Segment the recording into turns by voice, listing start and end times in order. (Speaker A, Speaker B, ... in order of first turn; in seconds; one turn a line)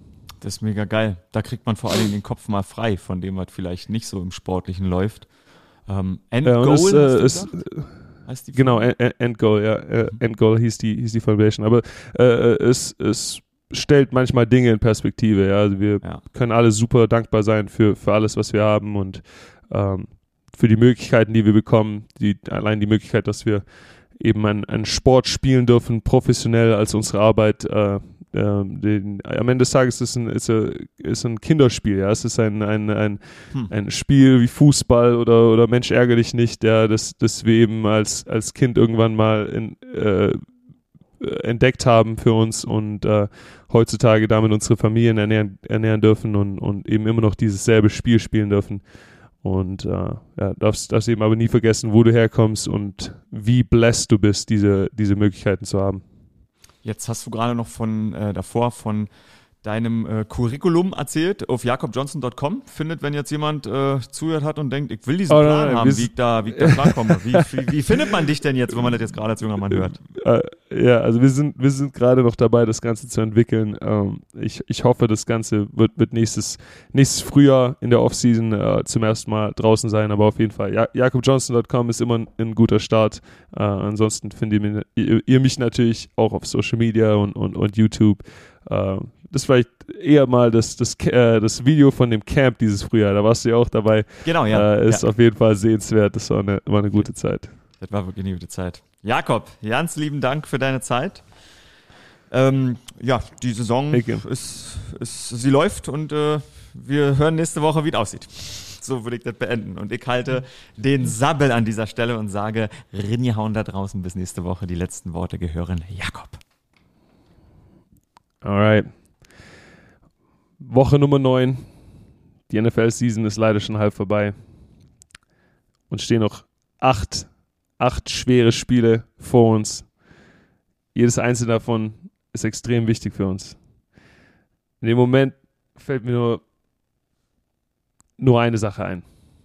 Speaker A: 0.4-8.9
Speaker B: 6.4-40.5
Speaker B: 41.2-56.0
Speaker A: 56.8-59.1
Speaker A: 59.6-70.0
Speaker B: 65.3-67.6
Speaker B: 69.9-97.5
Speaker A: 94.2-95.0
Speaker A: 96.9-101.5
Speaker A: 102.3-116.4
Speaker B: 103.9-104.2
Speaker B: 118.4-119.4
Speaker B: 120.6-121.7
Speaker B: 122.5-124.3
Speaker B: 125.9-129.9
Speaker B: 130.9-133.6
Speaker B: 134.8-136.4
Speaker B: 138.2-139.1